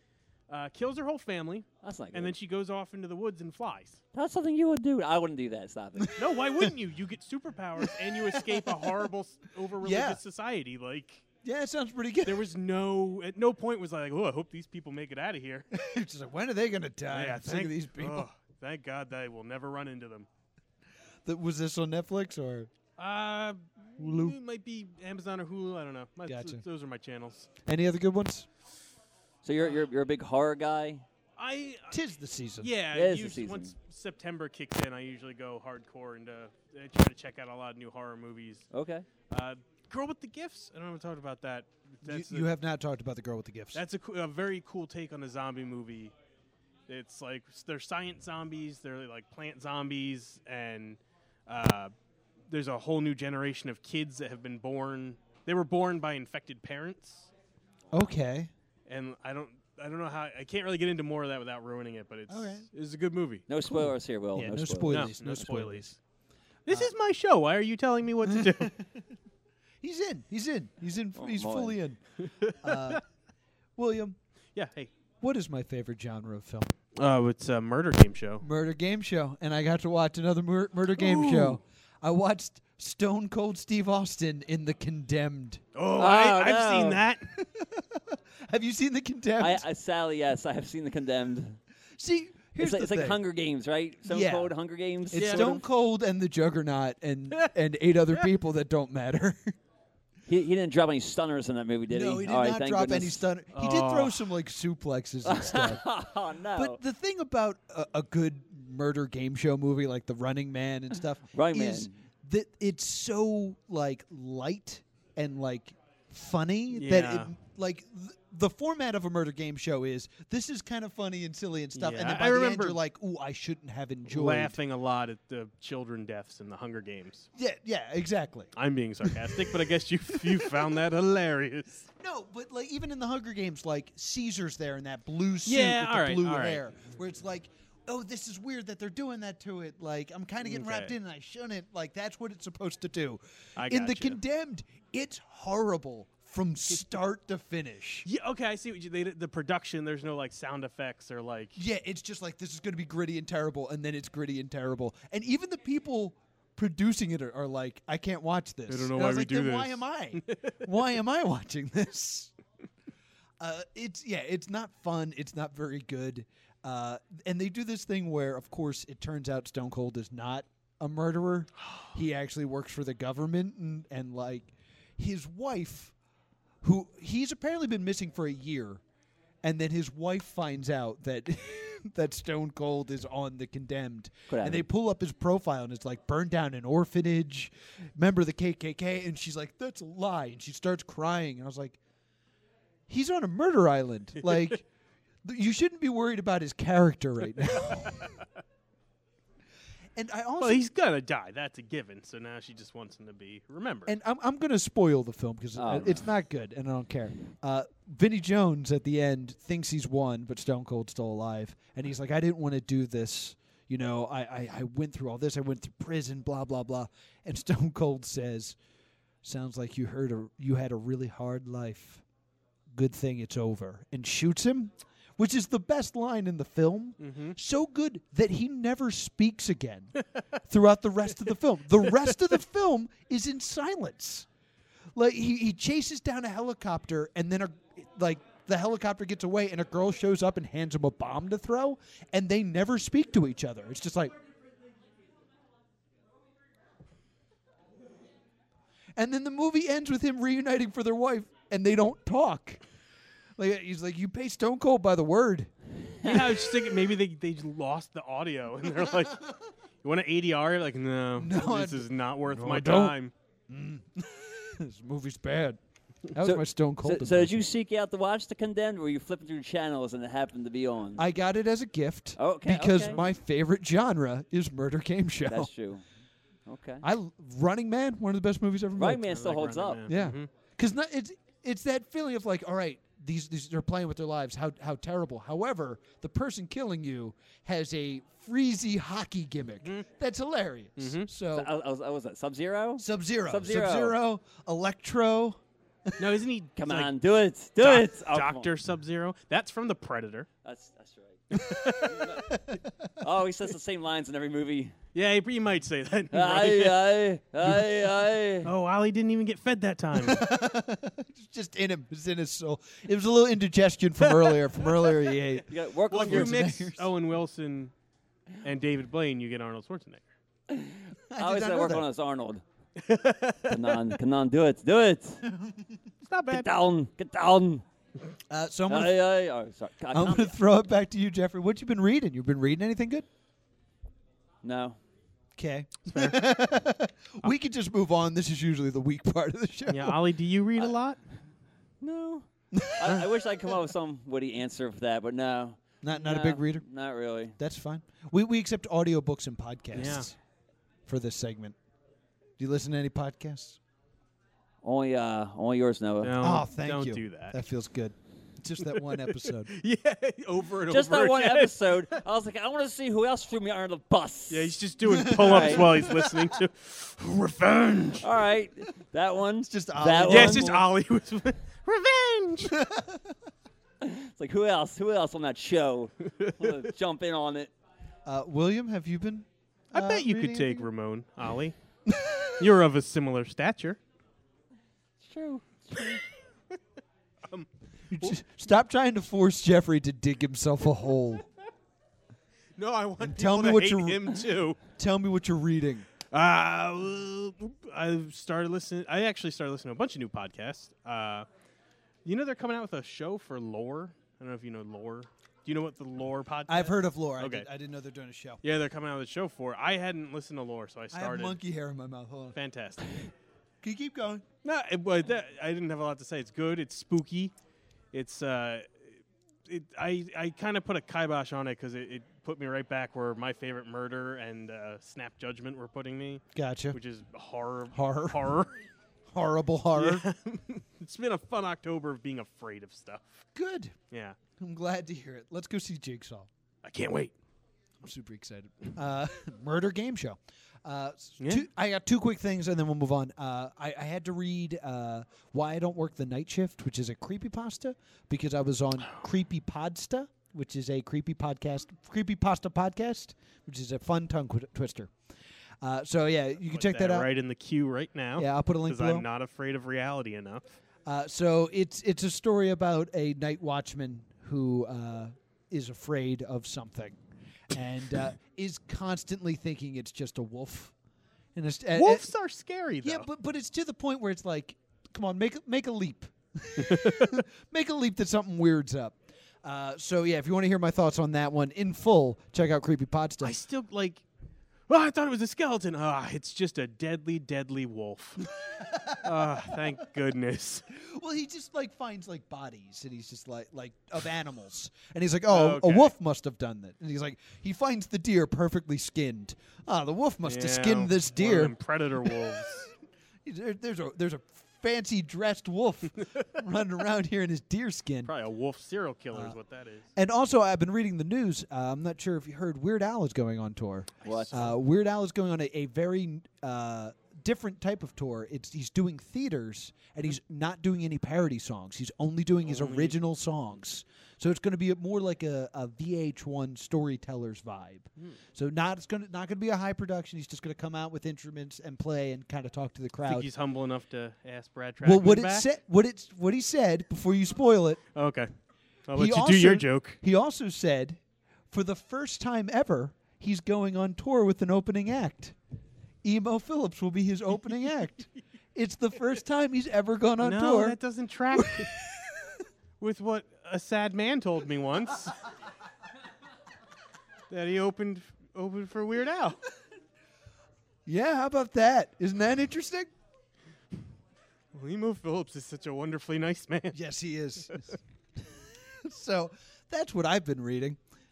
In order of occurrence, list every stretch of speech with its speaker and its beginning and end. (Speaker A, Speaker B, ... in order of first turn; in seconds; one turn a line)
Speaker A: 0.5-4.0
Speaker B: 1.8-2.4
Speaker B: 4.1-6.2
Speaker C: 6.0-6.7
Speaker A: 6.2-11.2
Speaker C: 7.8-9.0
Speaker C: 9.8-10.2
Speaker C: 11.4-12.5
Speaker A: 12.2-15.7
Speaker C: 15.7-18.3
Speaker A: 17.1-20.3
Speaker C: 21.2-22.7
Speaker A: 23.0-27.5
Speaker C: 24.0-24.4
Speaker C: 26.3-26.6
Speaker C: 27.6-28.5
Speaker B: 29.4-31.0
Speaker A: 31.4-32.0
Speaker C: 31.9-32.7
Speaker A: 32.6-38.7
Speaker B: 32.9-33.7
Speaker B: 38.7-39.1
Speaker A: 39.3-42.5
Speaker C: 42.0-43.8
Speaker A: 43.7-46.1
Speaker A: 46.9-51.9
Speaker A: 52.5-57.3
Speaker C: 57.9-58.5
Speaker A: 58.9-63.5
Speaker C: 62.3-62.7
Speaker B: 63.5-65.2
Speaker C: 64.3-66.0
Speaker A: 64.9-66.0
Speaker A: 66.7-68.7
Speaker C: 66.7-66.9
Speaker C: 68.2-69.0
Speaker C: 69.8-72.0
Speaker B: 71.2-71.8
Speaker A: 72.2-73.0
Speaker C: 72.6-73.0
Speaker C: 73.8-74.2
Speaker A: 74.5-74.9
Speaker C: 75.2-76.7
Speaker A: 77.0-78.5
Speaker C: 78.4-85.6
Speaker A: 81.0-81.6
Speaker A: 85.8-87.2
Speaker B: 86.0-87.1
Speaker C: 87.4-89.7
Speaker B: 89.4-91.6
Speaker C: 92.0-93.2
Speaker B: 92.6-95.6
Speaker C: 94.1-94.5
Speaker C: 95.1-99.5
Speaker A: 95.2-95.6
Speaker B: 100.3-103.2
Speaker C: 101.9-105.8
Speaker A: 103.5-104.3
Speaker B: 105.2-106.8
Speaker C: 106.5-124.6
Speaker B: 111.3-112.0
Speaker A: 116.7-117.3
Speaker A: 121.8-122.8
Speaker A: 124.1-127.3
Speaker C: 127.3-128.5
Speaker A: 128.6-131.9
Speaker C: 129.0-130.8
Speaker C: 132.0-148.1
Speaker A: 135.5-136.6
Speaker A: 140.4-140.9
Speaker A: 143.6-144.2
Speaker A: 148.1-151.6
Speaker C: 151.6-162.3
Speaker A: 158.7-160.5
Speaker C: 163.4-175.9
Speaker C: 176.6-178.8
Speaker C: 179.4-191.8
Speaker B: 184.3-184.6
Speaker C: 192.9-194.7
Speaker C: 195.2-198.1
Speaker A: 197.7-198.1
Speaker C: 200.0-200.7
Speaker A: 200.4-203.9
Speaker C: 203.9-218.6
Speaker B: 205.6-206.1
Speaker C: 219.2-222.0
Speaker C: 222.7-229.9
Speaker A: 227.0-227.4
Speaker C: 230.5-234.3
Speaker C: 234.9-244.2
Speaker C: 249.0-252.6
Speaker C: 253.4-255.5
Speaker A: 256.0-259.3
Speaker A: 259.8-263.1
Speaker C: 261.1-265.6
Speaker C: 266.1-267.4
Speaker B: 266.2-271.0
Speaker C: 271.0-275.5
Speaker B: 272.2-273.0
Speaker B: 275.3-275.8
Speaker B: 276.5-276.9
Speaker C: 276.8-279.2
Speaker B: 278.8-279.9
Speaker A: 279.0-280.3
Speaker C: 279.9-291.5
Speaker A: 290.8-291.1
Speaker B: 291.3-294.0
Speaker C: 292.8-296.1
Speaker A: 296.0-296.9
Speaker B: 296.6-298.5
Speaker A: 297.6-300.3
Speaker B: 300.4-302.3
Speaker A: 301.3-302.2
Speaker C: 302.1-302.9
Speaker B: 303.0-304.8
Speaker A: 304.9-307.6
Speaker B: 306.1-308.5
Speaker A: 308.4-310.3
Speaker C: 309.9-316.9
Speaker B: 315.5-316.4
Speaker A: 315.9-317.7
Speaker A: 318.4-320.1
Speaker B: 320.5-322.4
Speaker C: 321.1-321.9
Speaker A: 322.8-324.0
Speaker B: 323.5-325.2
Speaker C: 325.2-325.8
Speaker A: 326.1-326.5
Speaker B: 326.3-327.6
Speaker C: 328.3-329.1
Speaker B: 328.7-330.4
Speaker C: 329.9-333.1
Speaker B: 334.4-334.8
Speaker C: 335.4-340.0
Speaker A: 335.9-336.2
Speaker A: 339.7-341.0
Speaker B: 341.8-347.4
Speaker C: 342.5-343.1
Speaker C: 345.8-346.6
Speaker C: 347.4-350.2
Speaker A: 349.7-350.1
Speaker C: 350.9-351.6
Speaker C: 352.4-353.6
Speaker B: 354.6-356.2
Speaker A: 356.0-357.4
Speaker C: 356.2-359.5
Speaker A: 358.6-361.9
Speaker B: 360.7-364.6
Speaker A: 364.3-368.1
Speaker C: 364.8-366.2
Speaker B: 365.1-365.9
Speaker B: 368.0-370.5
Speaker C: 369.5-370.7
Speaker A: 370.1-372.6
Speaker C: 372.5-373.1
Speaker B: 373.8-377.5
Speaker A: 376.2-376.5
Speaker C: 378.1-380.7
Speaker A: 379.7-381.6
Speaker C: 381.9-382.4
Speaker A: 382.4-383.8
Speaker B: 385.0-386.0
Speaker C: 387.9-391.2
Speaker A: 392.6-394.6
Speaker C: 393.0-394.2
Speaker C: 394.7-395.9
Speaker A: 396.1-401.3
Speaker A: 402.1-407.5
Speaker C: 406.5-408.4
Speaker A: 408.4-411.4
Speaker C: 410.9-412.4
Speaker A: 412.3-413.1
Speaker C: 413.6-414.2
Speaker A: 414.4-417.3
Speaker A: 417.9-418.8
Speaker A: 419.5-428.6
Speaker C: 426.3-426.8
Speaker C: 427.7-428.4
Speaker C: 429.1-430.1
Speaker A: 429.8-433.2
Speaker C: 433.4-433.8
Speaker A: 433.9-434.2
Speaker C: 434.4-436.3
Speaker A: 436.6-437.1
Speaker C: 437.8-454.9
Speaker C: 455.6-457.1
Speaker A: 456.5-460.4
Speaker C: 458.2-459.1
Speaker C: 460.9-467.0
Speaker C: 467.5-470.7
Speaker C: 471.4-472.1
Speaker A: 471.8-473.1
Speaker C: 472.8-483.4
Speaker A: 476.6-477.2
Speaker A: 483.2-484.0
Speaker A: 484.7-488.3
Speaker C: 488.4-489.6
Speaker A: 489.0-490.6
Speaker C: 490.7-502.2
Speaker A: 495.3-495.9
Speaker A: 500.2-502.7
Speaker C: 503.2-508.1
Speaker A: 508.1-509.9
Speaker C: 510.0-533.3
Speaker B: 514.0-514.4
Speaker A: 514.0-514.5
Speaker A: 522.5-523.0
Speaker A: 533.0-535.5
Speaker C: 534.8-537.8
Speaker A: 538.0-538.3
Speaker A: 538.9-540.0
Speaker C: 538.9-541.0
Speaker C: 541.5-545.4
Speaker C: 546.0-550.8
Speaker A: 550.2-551.7
Speaker C: 551.3-552.4
Speaker A: 552.8-555.2
Speaker A: 557.3-559.4
Speaker C: 560.9-562.9
Speaker A: 564.5-566.8
Speaker C: 566.7-570.8